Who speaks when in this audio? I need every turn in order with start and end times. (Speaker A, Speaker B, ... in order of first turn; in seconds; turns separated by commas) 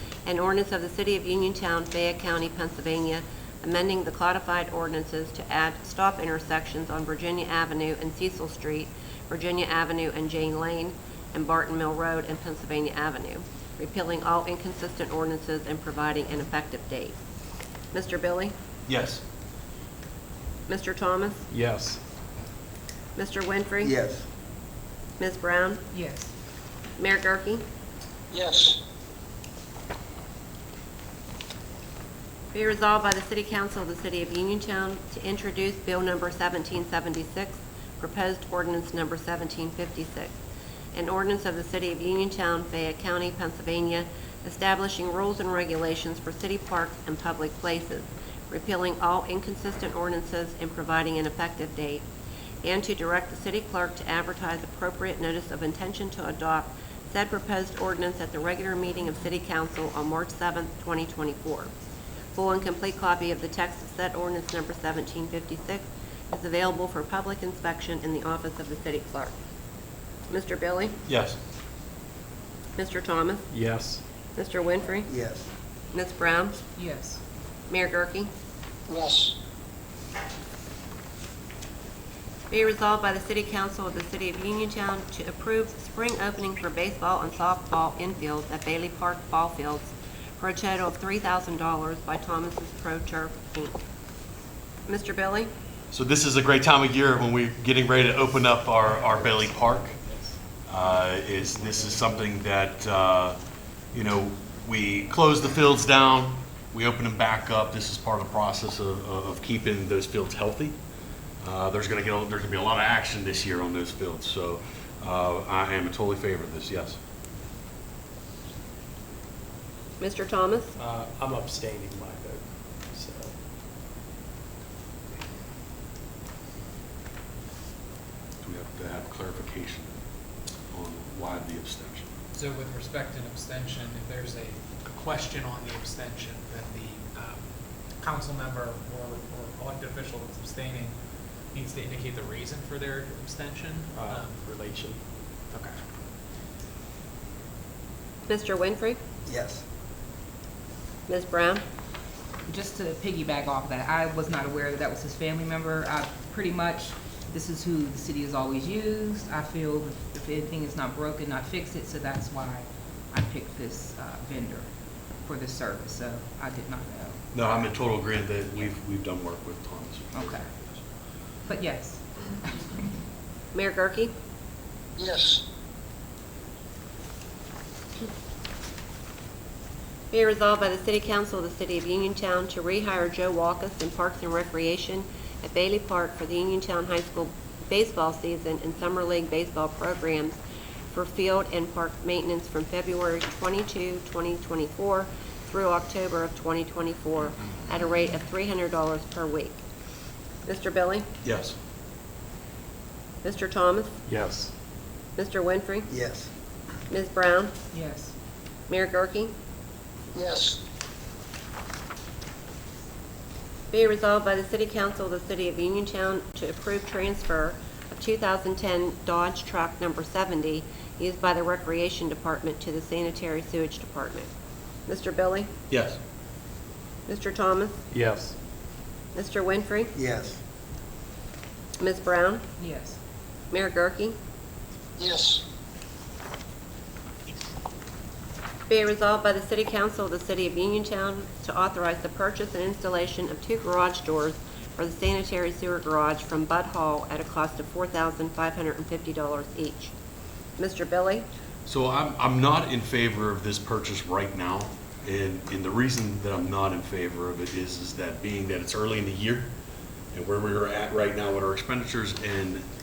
Speaker A: 0.3-17.2, Speaker A: 17.9-18.5, Speaker B: 18.9-19.2, Speaker A: 20.7-21.4, Speaker C: 21.5-22.0, Speaker A: 23.2-23.9, Speaker D: 23.8-24.2, Speaker A: 25.2-25.8, Speaker E: 25.9-26.3, Speaker A: 27.0-27.6, Speaker F: 28.3-28.8, Speaker A: 32.5-40.3, Speaker A: 40.9-52.0, Speaker A: 52.6-61.7, Speaker A: 62.4-69.3, Speaker A: 70.3-71.0, Speaker B: 71.1-71.4, Speaker A: 72.8-73.5, Speaker C: 73.5-74.0, Speaker A: 74.4-75.1, Speaker D: 75.1-75.5, Speaker A: 75.9-76.6, Speaker E: 76.8-77.2, Speaker A: 77.7-78.3, Speaker F: 78.9-79.4, Speaker A: 82.5-93.8, Speaker A: 94.9-95.5, Speaker B: 95.9-100.0, Speaker C: 98.9-100.4, Speaker B: 100.7-103.4, Speaker B: 103.9-110.8, Speaker B: 111.4-117.0, Speaker A: 120.0-120.7, Speaker C: 120.8-123.3, Speaker B: 128.4-129.9, Speaker B: 130.7-132.1, Speaker G: 132.3-137.4, Speaker G: 138.0-140.9, Speaker G: 141.5-144.3, Speaker C: 143.9-145.0, Speaker A: 148.3-149.0, Speaker D: 149.3-149.6, Speaker A: 151.1-151.6, Speaker E: 152.5-164.7, Speaker E: 165.2-167.2, Speaker B: 167.3-170.8, Speaker E: 170.1-170.5, Speaker E: 171.4-172.8, Speaker A: 173.5-174.1, Speaker F: 175.0-175.4, Speaker A: 180.1-190.4, Speaker A: 190.9-199.6, Speaker A: 200.5-201.1, Speaker B: 201.2-201.6, Speaker A: 203.2-203.9, Speaker C: 204.1-204.5, Speaker A: 205.2-205.9, Speaker D: 205.9-206.3, Speaker A: 206.9-207.5, Speaker E: 207.7-208.1, Speaker A: 208.7-209.3, Speaker F: 210.1-210.6, Speaker A: 213.7-224.3, Speaker A: 224.9-225.5, Speaker B: 225.7-226.0, Speaker A: 227.1-227.8, Speaker C: 227.9-228.4, Speaker A: 229.2-229.9, Speaker D: 229.9-230.4, Speaker A: 231.8-232.5, Speaker E: 232.6-233.0, Speaker A: 233.5-234.2, Speaker F: 235.0-235.4, Speaker A: 238.7-249.9, Speaker A: 250.6-251.3, Speaker B: 251.7-259.5, Speaker B: 260.1-262.6